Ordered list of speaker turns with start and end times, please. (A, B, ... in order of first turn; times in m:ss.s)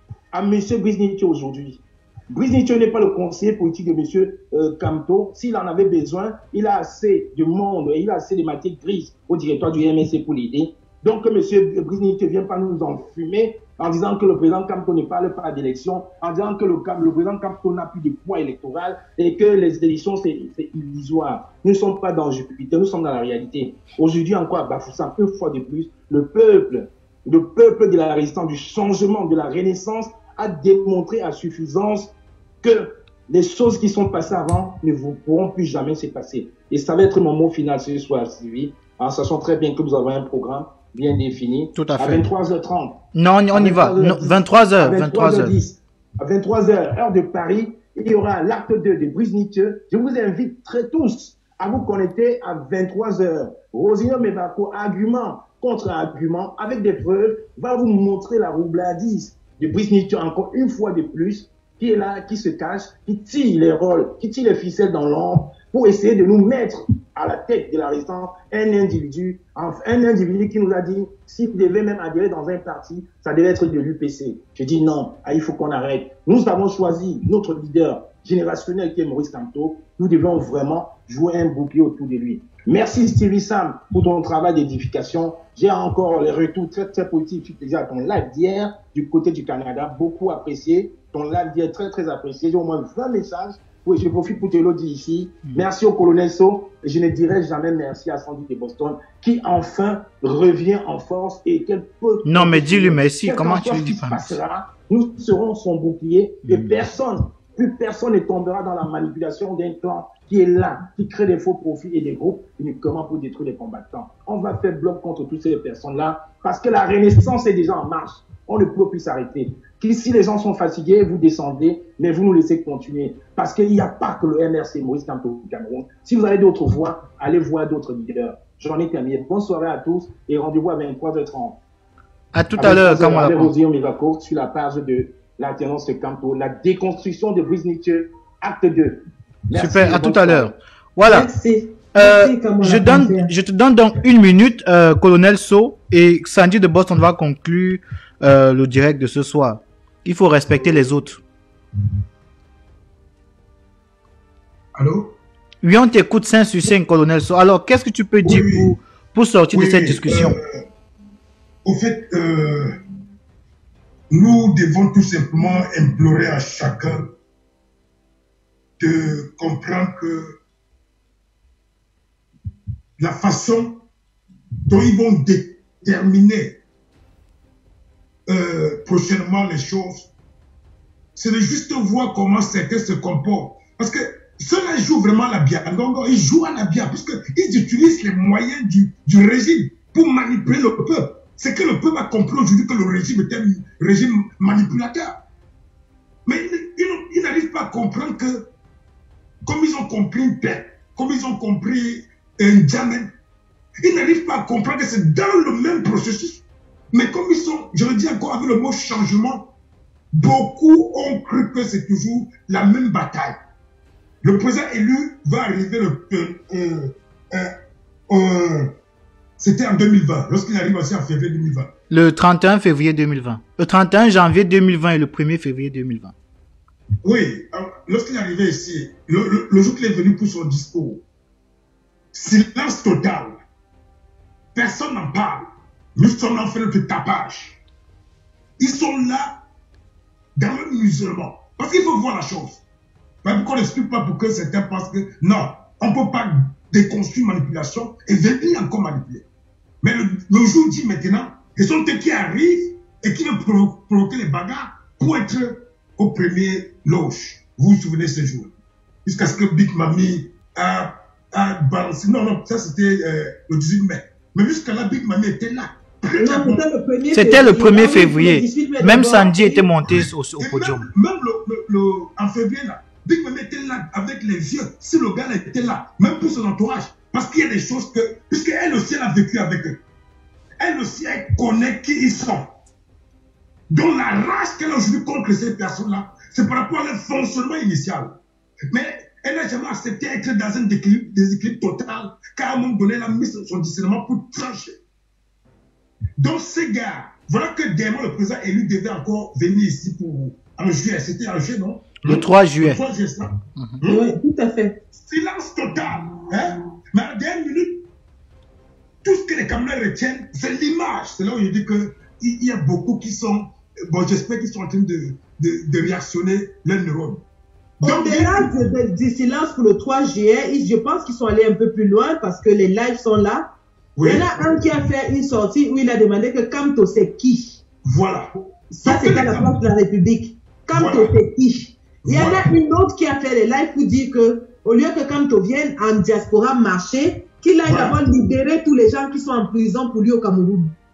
0:00.3-2:11.6 A
0:41.7-0:42.2 B
0:43.1-0:45.6 B
1:42.2-1:44.4 B
1:46.4-1:46.7 B
2:12.3-2:13.5 B
2:12.5-2:20.5 A
2:19.5-2:21.3 B
2:21.1-2:23.3 C
2:21.9-2:31.2 B
2:34.7-2:35.2 D
2:35.6-2:40.4 B
2:38.2-2:38.7 D
2:39.5-2:40.6 D
2:41.6-2:42.8 D
2:44.1-2:47.1 D
2:48.8-2:50.4 D
2:53.0-2:53.8 D
2:54.7-2:56.6 D
2:58.3-3:00.1 D
3:01.1-3:15.2 D
3:16.2-3:18.5 D
3:19.4-3:23.1 D
3:23.8-3:29.5 D
3:30.1-3:33.4 D
3:34.2-3:37.5 D
3:38.1-3:38.7 D
3:39.4-3:41.7 D
3:41.9-3:46.1 B
3:47.0-3:51.0 D
3:52.1-3:53.4 D
3:54.5-3:55.4 D
3:55.9-3:57.6 D
3:58.6-3:59.4 D
4:00.4-4:02.6 D
4:03.2-4:09.2 D
4:09.8-4:18.5 D
4:19.0-4:26.6 D
4:26.2-4:29.7 C
4:27.1-4:30.9 B
4:29.8-4:39.8 D
4:40.6-4:42.5 D
4:43.7-4:48.2 D
4:48.7-4:54.8 D
4:56.2-5:04.2 D
5:02.0-5:02.8 B
5:03.6-5:03.8 B
5:03.8-5:04.8 C
5:04.9-5:07.9 D
5:09.0-5:17.2 D
5:17.8-5:18.5 D
5:17.8-5:23.4 C
5:24.0-5:24.7 D
5:24.0-5:27.6 C
5:27.8-5:28.3 D
5:28.7-5:40.7 C
5:28.8-5:29.6 D
5:30.7-5:31.1 D
5:32.0-5:32.5 D
5:37.6-5:38.0 D